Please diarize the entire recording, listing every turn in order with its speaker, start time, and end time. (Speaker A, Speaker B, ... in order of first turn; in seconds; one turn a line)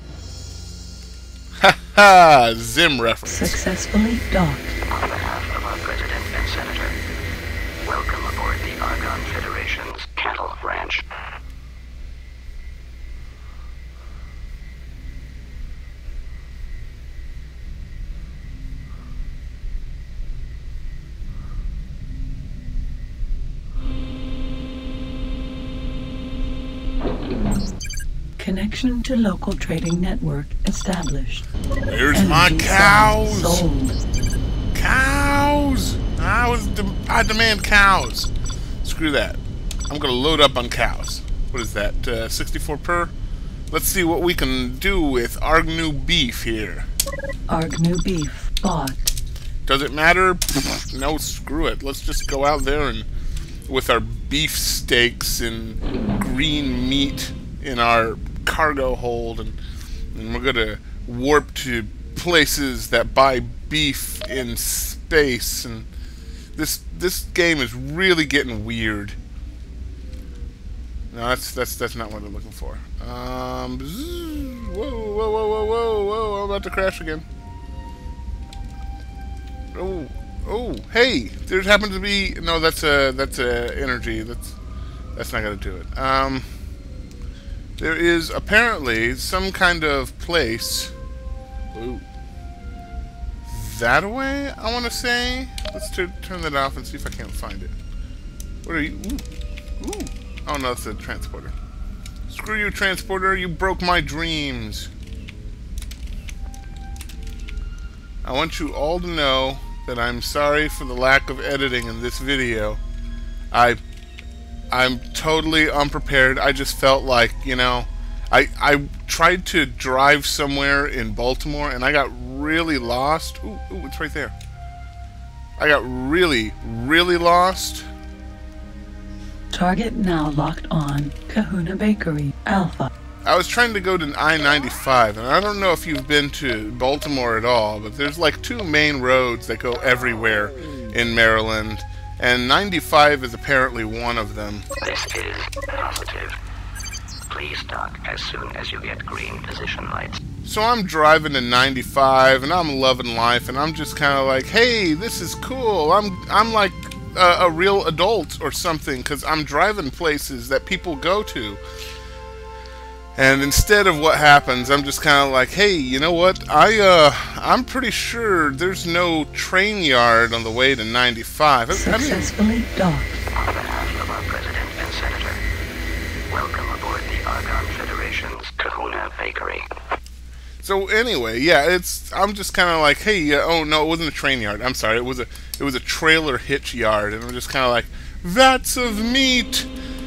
Speaker A: 1.6-3.6
Speaker B: 3.2-4.8
Speaker C: 4.9-7.0
Speaker C: 7.8-11.0
Speaker B: 28.4-31.4
Speaker A: 31.9-33.6
Speaker B: 32.1-34.0
Speaker A: 34.7-38.3
Speaker A: 38.8-43.1
Speaker A: 43.7-46.9
Speaker B: 47.5-49.1
Speaker A: 49.6-53.1
Speaker A: 53.7-59.6
Speaker A: 60.1-65.9
Speaker A: 66.5-69.2
Speaker A: 71.1-77.2
Speaker A: 79.7-84.5
Speaker A: 85.1-86.5
Speaker A: 87.8-90.9
Speaker A: 91.7-92.0
Speaker A: 93.5-97.7
Speaker A: 98.6-99.3
Speaker A: 99.8-101.5
Speaker A: 102.3-104.9
Speaker A: 108.2-112.8
Speaker A: 113.5-113.8
Speaker A: 114.7-124.3
Speaker A: 125.6-127.9
Speaker B: 129.5-132.9
Speaker A: 133.2-144.7
Speaker C: 144.8-146.4
Speaker C: 147.3-150.2
Speaker A: 150.4-161.6
Speaker A: 163.2-172.3
Speaker B: 171.7-173.2
Speaker C: 173.3-175.4
Speaker C: 176.3-179.7
Speaker A: 180.6-189.7